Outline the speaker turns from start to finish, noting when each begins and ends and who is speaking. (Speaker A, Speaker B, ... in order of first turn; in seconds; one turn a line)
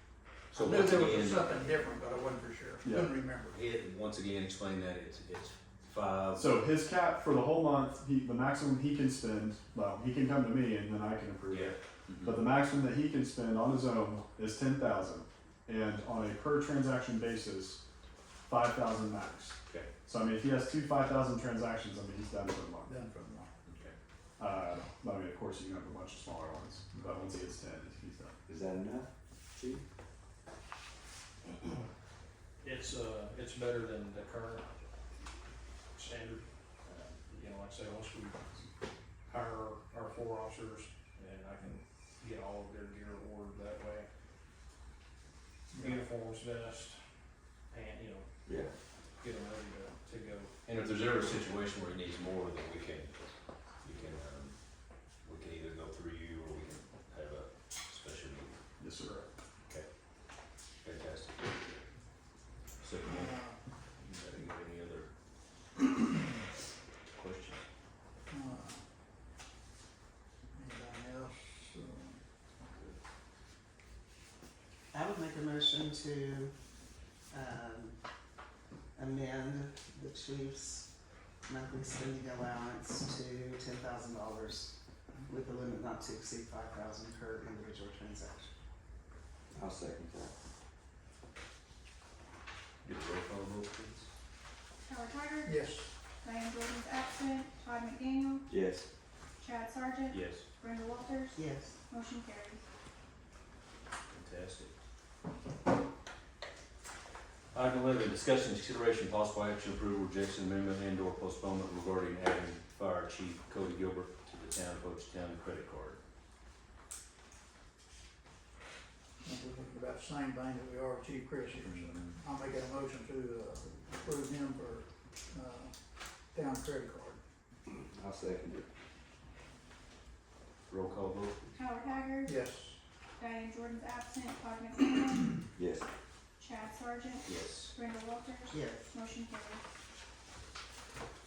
Speaker A: 0.5-1.6
Speaker B: 0.5-3.6
Speaker C: 2.8-3.1
Speaker A: 3.5-6.6
Speaker C: 6.4-17.8
Speaker A: 11.5-12.4
Speaker C: 18.5-23.0
Speaker B: 22.9-23.5
Speaker A: 23.7-23.9
Speaker C: 24.4-28.4
Speaker D: 28.5-29.8
Speaker E: 32.6-34.7
Speaker E: 36.0-38.7
Speaker E: 39.2-44.1
Speaker E: 45.7-50.5
Speaker B: 45.7-46.0
Speaker D: 48.5-48.7
Speaker A: 50.7-54.6
Speaker A: 55.2-58.6
Speaker C: 58.8-59.2
Speaker E: 59.0-59.3
Speaker A: 60.8-61.5
Speaker A: 62.8-63.4
Speaker B: 63.0-63.6
Speaker A: 64.0-65.1
Speaker A: 67.1-67.6
Speaker B: 68.3-68.8
Speaker B: 70.5-72.2
Speaker F: 74.9-76.5
Speaker F: 77.3-78.0
Speaker F: 79.0-80.9
Speaker F: 81.5-84.8
Speaker F: 85.3-88.5
Speaker D: 89.5-90.3
Speaker A: 92.8-94.1
Speaker G: 94.8-95.5
Speaker B: 95.5-95.9
Speaker G: 96.2-98.5
Speaker D: 98.5-98.9
Speaker G: 99.4-102.7
Speaker A: 100.1-100.5
Speaker F: 101.4-101.8
Speaker A: 104.1-104.7
Speaker A: 107.5-116.0
Speaker B: 119.2-125.8
Speaker A: 121.6-122.2
Speaker B: 126.3-127.2
Speaker D: 127.7-128.7
Speaker A: 130.7-131.4
Speaker G: 131.6-132.4
Speaker B: 132.3-132.8
Speaker G: 133.2-135.4
Speaker D: 135.6-135.9
Speaker G: 136.4-139.6
Speaker A: 137.3-137.7
Speaker F: 138.5-138.9